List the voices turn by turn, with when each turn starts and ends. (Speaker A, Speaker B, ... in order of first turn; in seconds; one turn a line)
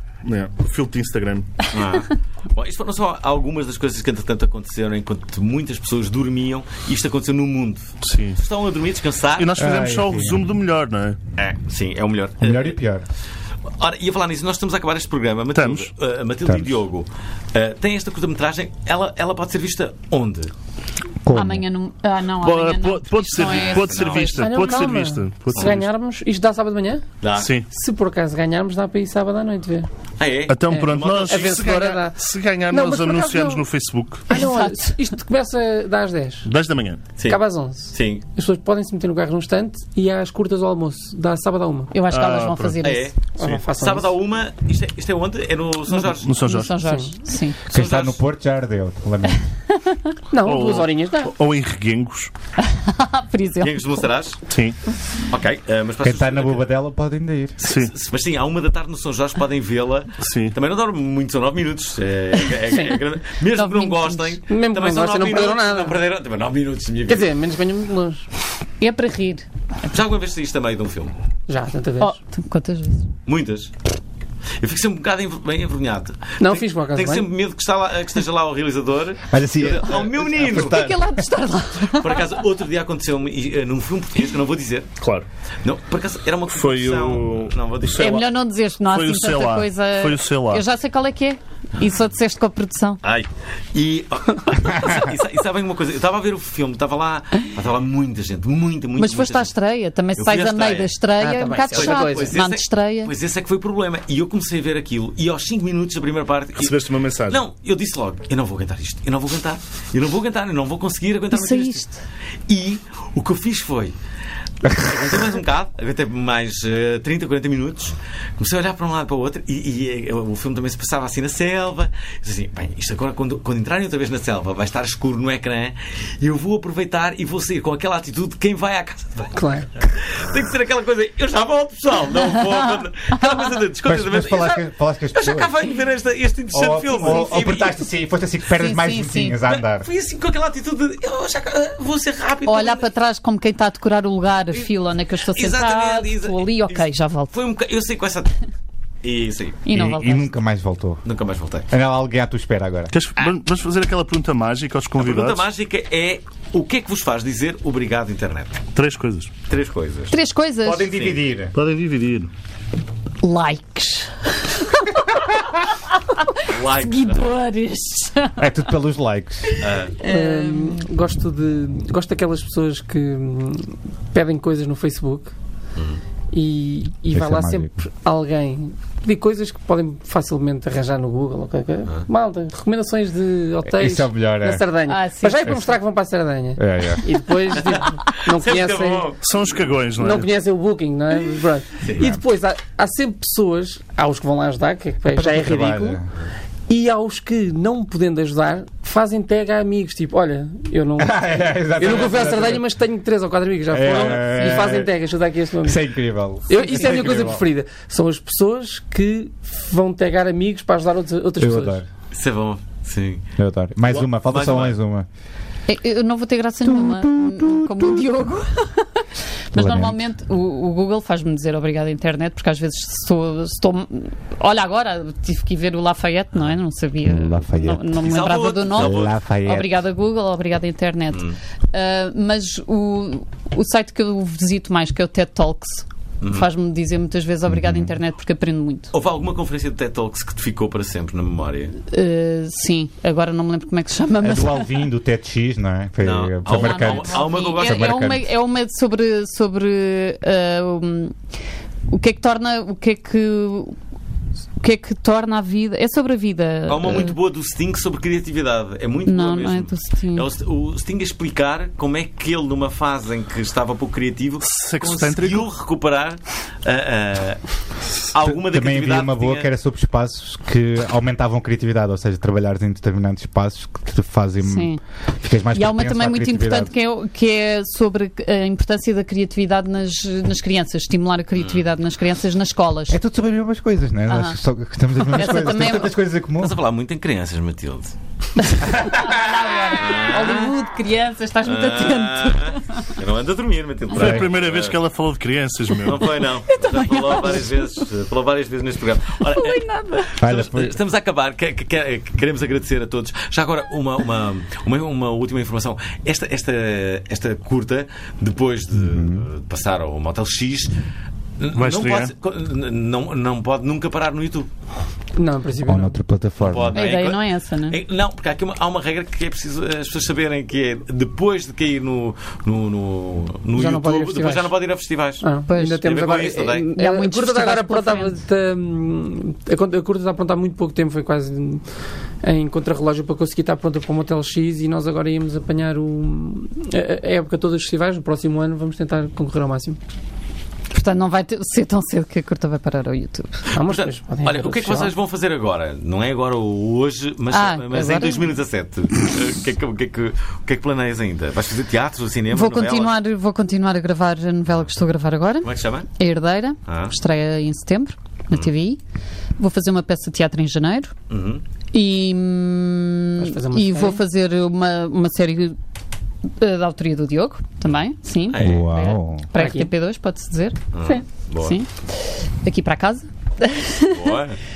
Speaker A: 0.2-1.6
Speaker B: 1.7-9.6
Speaker A: 8.0-8.4
Speaker A: 9.4-11.2
Speaker C: 9.6-10.4
Speaker B: 11.4-12.8
Speaker C: 12.4-13.0
Speaker B: 13.8-20.5
Speaker A: 15.5-15.9
Speaker C: 16.5-16.7
Speaker C: 21.2-21.6
Speaker D: 21.3-24.8
Speaker A: 22.4-25.9
Speaker B: 23.7-24.3
Speaker E: 24.4-27.0
Speaker B: 27.2-27.5
Speaker A: 27.4-27.7
Speaker E: 27.7-29.9
Speaker B: 30.2-31.6
Speaker A: 30.5-34.3
Speaker E: 30.7-33.6
Speaker E: 34.3-36.5
Speaker D: 34.3-35.0
Speaker A: 36.4-37.0
Speaker E: 37.3-41.9
Speaker B: 37.9-38.2
Speaker D: 41.9-43.1
Speaker A: 42.1-42.8
Speaker B: 42.8-46.4
Speaker E: 43.4-44.1
Speaker A: 46.0-46.8
Speaker D: 46.4-47.6
Speaker E: 46.8-47.1
Speaker C: 47.7-49.4
Speaker B: 47.7-48.2
Speaker D: 49.7-50.1
Speaker E: 50.3-51.3
Speaker A: 50.4-52.3
Speaker D: 52.6-54.0
Speaker B: 53.6-54.4
Speaker A: 54.5-54.8
Speaker B: 55.2-56.7
Speaker C: 56.0-57.6
Speaker A: 57.6-57.9
Speaker B: 57.6-67.3
Speaker A: 60.2-60.6
Speaker D: 62.5-64.4
Speaker E: 64.5-66.0
Speaker E: 67.1-68.3
Speaker D: 68.8-69.5
Speaker B: 69.9-71.1
Speaker E: 71.5-72.2
Speaker D: 72.0-73.1
Speaker B: 73.2-73.7
Speaker B: 74.6-80.9
Speaker E: 76.4-77.3
Speaker C: 79.3-81.0
Speaker D: 80.5-82.3
Speaker B: 82.0-84.9
Speaker A: 85.0-85.3
Speaker B: 85.6-88.1
Speaker A: 86.5-88.3
Speaker D: 88.0-93.0
Speaker A: 88.8-90.6
Speaker B: 93.0-99.5
Speaker D: 99.0-103.1
Speaker B: 100.2-100.9
Speaker E: 101.2-102.3
Speaker B: 101.7-111.9
Speaker A: 106.5-107.4
Speaker D: 111.3-112.0
Speaker B: 112.5-113.9
Speaker B: 114.6-137.8
Speaker E: 129.3-129.7
Speaker C: 133.8-135.5
Speaker C: 136.5-139.9
Speaker D: 137.0-137.6
Speaker D: 138.6-139.4
Speaker B: 139.5-142.8
Speaker D: 142.4-147.3
Speaker B: 145.3-148.3
Speaker B: 149.0-149.6
Speaker D: 149.6-150.3
Speaker C: 149.7-151.0
Speaker B: 151.0-151.7
Speaker C: 151.7-152.9
Speaker A: 152.9-155.4
Speaker B: 155.0-158.6
Speaker A: 158.7-159.3
Speaker B: 159.5-160.1
Speaker D: 160.1-160.9
Speaker C: 160.6-161.5
Speaker B: 160.9-161.2
Speaker A: 161.5-162.3
Speaker D: 163.2-165.6
Speaker D: 166.1-168.4
Speaker B: 166.5-167.3
Speaker C: 168.4-169.6
Speaker B: 169.6-170.0
Speaker D: 170.0-170.8
Speaker E: 170.0-175.3
Speaker E: 176.3-189.1
Speaker C: 177.1-177.7
Speaker C: 183.6-184.7
Speaker D: 184.8-185.7
Speaker C: 186.6-187.1
Speaker B: 187.6-189.3
Speaker A: 189.2-190.3
Speaker E: 189.9-196.0
Speaker C: 195.1-196.1
Speaker E: 196.7-205.9
Speaker C: 201.0-202.6
Speaker C: 203.7-204.9
Speaker C: 205.6-207.5
Speaker E: 206.5-211.8
Speaker C: 211.4-211.9
Speaker B: 212.1-213.3
Speaker C: 213.4-215.1
Speaker B: 214.2-214.8
Speaker D: 215.7-238.9
Speaker C: 216.8-217.7
Speaker C: 219.5-220.0
Speaker C: 227.0-228.0
Speaker B: 228.0-229.2
Speaker C: 228.7-229.8
Speaker B: 236.2-236.5
Speaker C: 237.5-238.0
Speaker B: 238.9-241.7
Speaker D: 241.8-244.7
Speaker C: 244.2-248.2
Speaker B: 246.0-247.9
Speaker D: 246.6-251.2
Speaker D: 251.9-253.7
Speaker D: 254.6-257.1
Speaker B: 256.7-267.4
Speaker D: 259.1-260.3
Speaker A: 264.4-265.5
Speaker B: 268.1-269.5
Speaker C: 268.2-276.7
Speaker D: 274.4-274.8
Speaker D: 275.5-283.0
Speaker C: 282.9-286.6
Speaker D: 284.1-284.4
Speaker D: 285.0-285.9
Speaker B: 286.4-287.9
Speaker D: 288.4-292.8
Speaker B: 289.7-290.5
Speaker B: 291.4-294.8
Speaker A: 294.0-296.1
Speaker C: 294.0-294.3
Speaker B: 295.8-310.7
Speaker D: 296.4-297.9
Speaker D: 299.2-300.1
Speaker C: 300.2-300.8
Speaker C: 308.8-309.3
Speaker B: 311.4-314.5
Speaker A: 311.5-312.1
Speaker E: 315.1-316.0
Speaker C: 315.6-316.8
Speaker B: 316.4-325.3
Speaker D: 316.7-317.8
Speaker E: 323.6-324.5
Speaker E: 325.2-331.6
Speaker D: 325.5-328.2
Speaker B: 325.8-326.6
Speaker E: 332.2-339.8
Speaker D: 340.7-343.5
Speaker E: 343.5-344.9
Speaker B: 343.6-352.9
Speaker D: 347.3-348.3
Speaker D: 352.3-358.8
Speaker B: 355.4-355.9
Speaker B: 356.7-356.9
Speaker D: 359.4-360.9
Speaker B: 361.1-361.4
Speaker D: 361.7-365.6
Speaker E: 363.2-364.0
Speaker D: 366.4-371.7
Speaker B: 368.3-368.7
Speaker C: 368.4-369.3
Speaker E: 369.4-369.7
Speaker B: 370.7-371.6
Speaker D: 372.4-374.2
Speaker B: 373.9-374.4